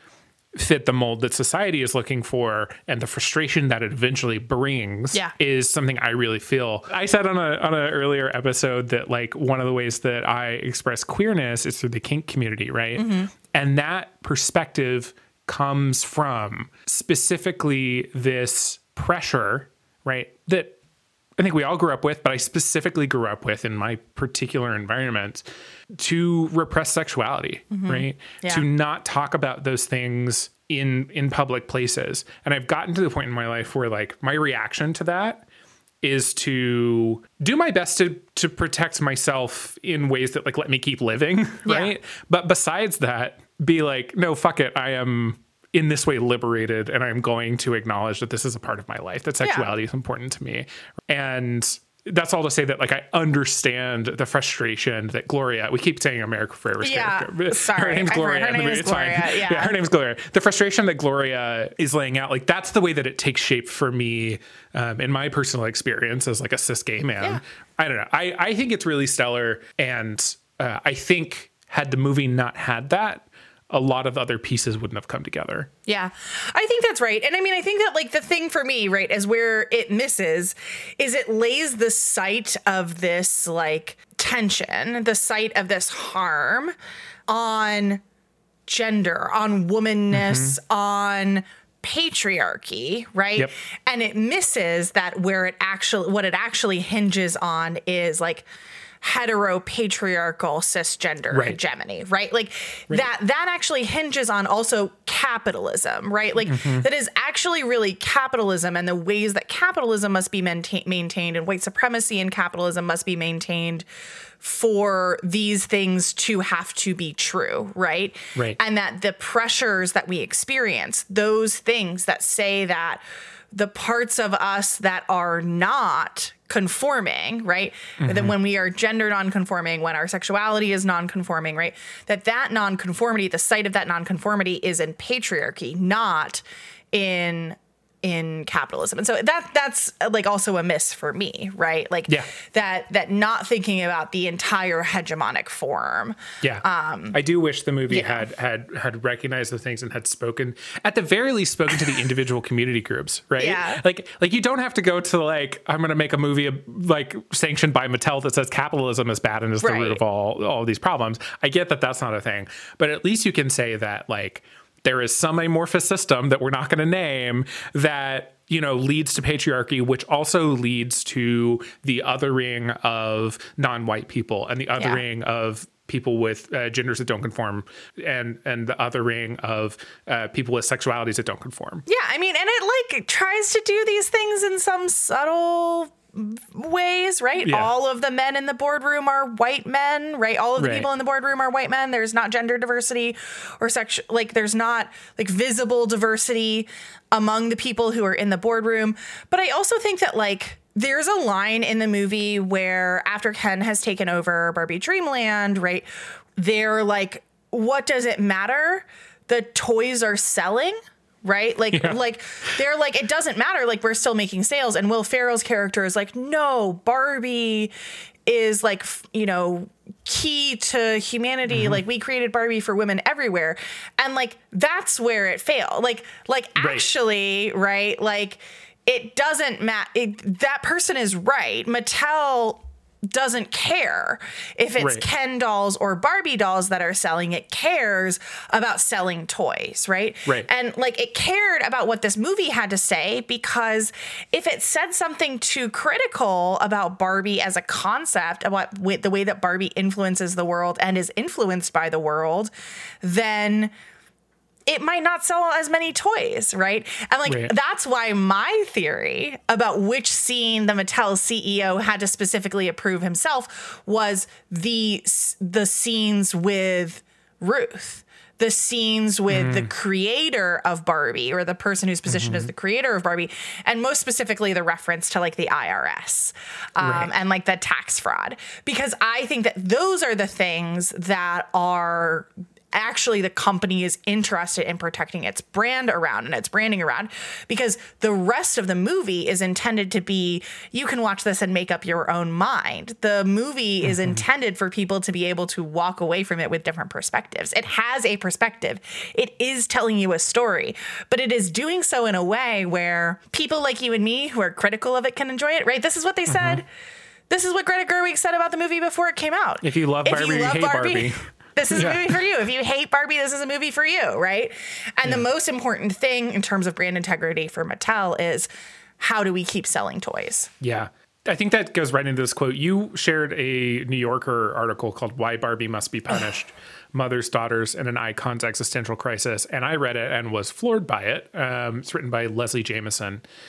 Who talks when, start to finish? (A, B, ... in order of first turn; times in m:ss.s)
0:00.5-0:20.8 A
0:13.0-0:13.3 B
0:21.4-0:35.4 A
0:27.7-0:28.6 B
0:36.0-1:15.7 A
0:41.6-0:41.9 B
0:49.4-0:49.7 B
0:56.8-0:59.8 B
1:15.9-1:26.7 B
1:27.3-1:28.0 B
1:28.7-1:38.4 B
1:30.1-1:30.5 A
1:39.0-1:53.8 B
1:41.3-1:41.6 A
1:46.4-1:46.9 A
1:54.4-2:27.2 B
2:08.0-2:08.3 A
2:26.4-3:01.8 A
2:27.9-2:28.2 B
2:33.4-2:33.8 B
2:39.6-2:40.0 B
3:01.8-3:37.7 B
3:07.4-3:07.7 A
3:10.6-3:10.9 A
3:38.2-4:12.5 B
3:41.5-3:41.8 A
3:46.6-3:46.9 A
3:54.8-3:55.0 A
4:13.0-4:13.7 B
4:14.7-5:06.6 B
4:17.2-4:17.5 A
4:29.3-4:29.7 A
4:32.1-4:32.5 A
4:36.8-4:37.1 A
4:53.8-4:54.2 A
5:06.3-5:06.6 A
5:07.3-5:18.5 B
5:09.6-5:12.1 A
5:19.0-5:20.5 B
5:20.6-5:33.2 A